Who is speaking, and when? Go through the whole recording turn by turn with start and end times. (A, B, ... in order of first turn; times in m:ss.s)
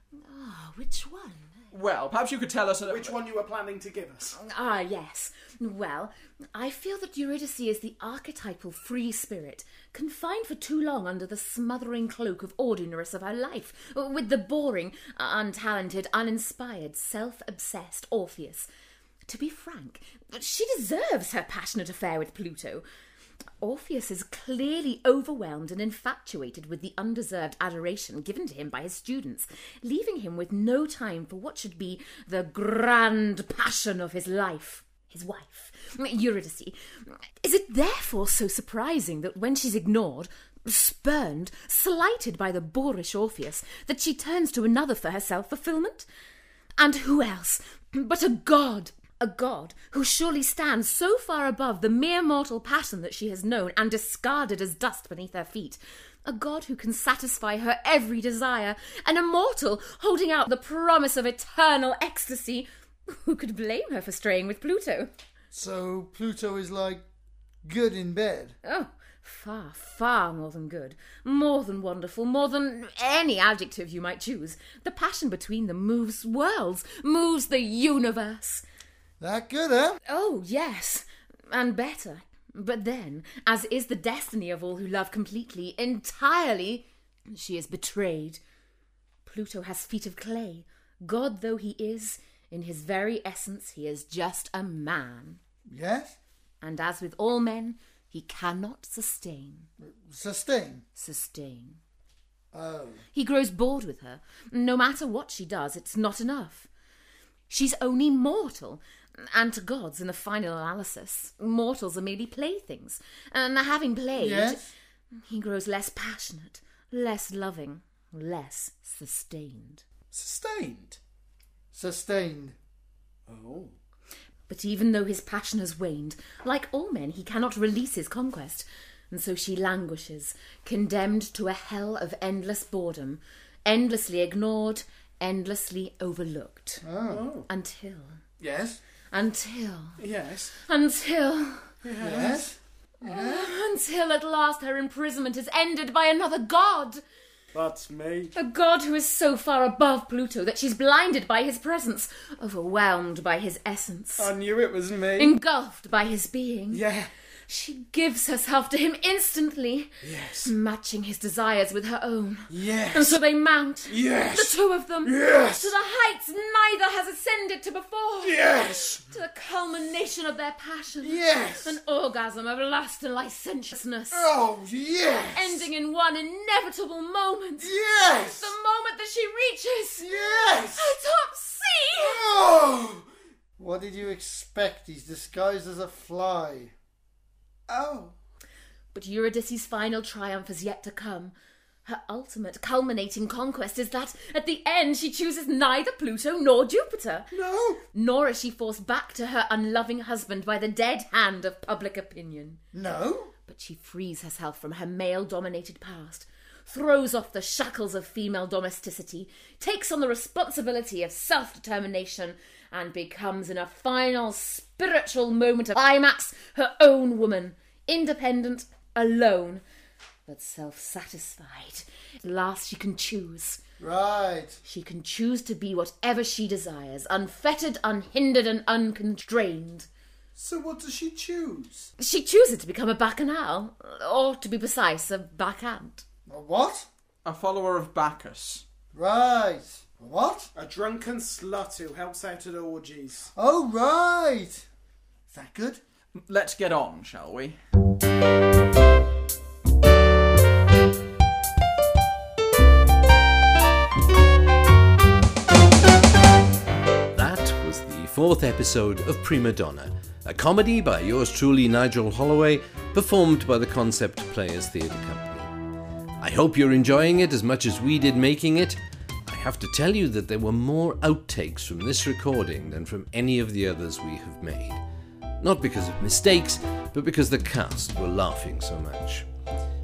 0:00.2-0:01.6 A
0:01.7-0:03.2 B
0:02.9-0:04.4 C
0:04.4-0:18.7 A
0:19.3-0:22.8 A
0:23.6-0:46.1 A
0:46.8-1:05.1 A
1:05.5-1:07.0 D
1:07.6-1:08.6 D
1:08.6-1:18.6 A
1:19.2-1:20.0 D
1:20.1-1:28.4 A
1:29.2-1:35.4 A
1:35.7-1:36.2 D
1:36.6-1:39.7 A
1:39.8-1:40.8 D
1:41.0-1:41.8 A
1:42.5-1:43.0 D
1:43.1-1:46.7 A
1:47.5-1:54.6 A
1:54.1-1:54.7 D
1:55.2-1:59.8 A
2:00.1-2:01.0 C
2:01.7-2:02.6 D
2:03.3-2:03.7 C
2:04.5-2:16.8 A
2:16.8-2:17.3 D
2:17.1-2:17.5 C
2:17.5-2:18.2 A
2:18.4-2:18.8 D
2:19.1-2:20.0 A
2:20.0-2:20.6 C
2:20.6-2:21.7 A
2:21.8-2:22.4 C
2:22.0-2:23.5 D
2:23.0-2:27.0 A
2:27.5-2:28.3 C
2:28.4-2:34.4 A
2:34.2-2:35.4 C
2:35.1-2:36.8 A
2:36.7-2:37.1 C
2:37.5-2:39.9 A
2:40.0-2:40.5 C
2:40.4-2:54.4 A
2:42.5-2:43.2 C
2:43.9-2:45.8 C
2:48.2-2:49.0 C
2:51.0-2:51.8 C
2:54.1-2:55.6 C
2:55.3-3:02.3 A
2:57.6-2:58.5 C
3:00.0-3:01.0 C
3:02.0-3:03.0 C
3:03.6-3:06.7 D
3:07.7-3:08.1 C
3:08.9-3:17.3 A
3:17.3-3:17.8 C
3:17.9-3:22.6 A
3:22.7-3:23.3 D
3:23.5-3:39.6 A
3:40.3-3:43.6 A
3:43.8-3:44.6 D
3:44.6-3:49.9 A
3:50.4-3:51.9 C
3:52.0-3:56.0 A
3:56.3-3:56.9 D
3:57.2-3:58.6 B
3:58.9-4:00.5 D
4:00.6-4:03.3 C
4:03.4-4:04.6 D
4:05.3-4:05.8 D
4:06.2-4:07.6 B
4:17.1-4:25.5 E
4:26.2-4:34.8 E
4:35.4-4:39.3 E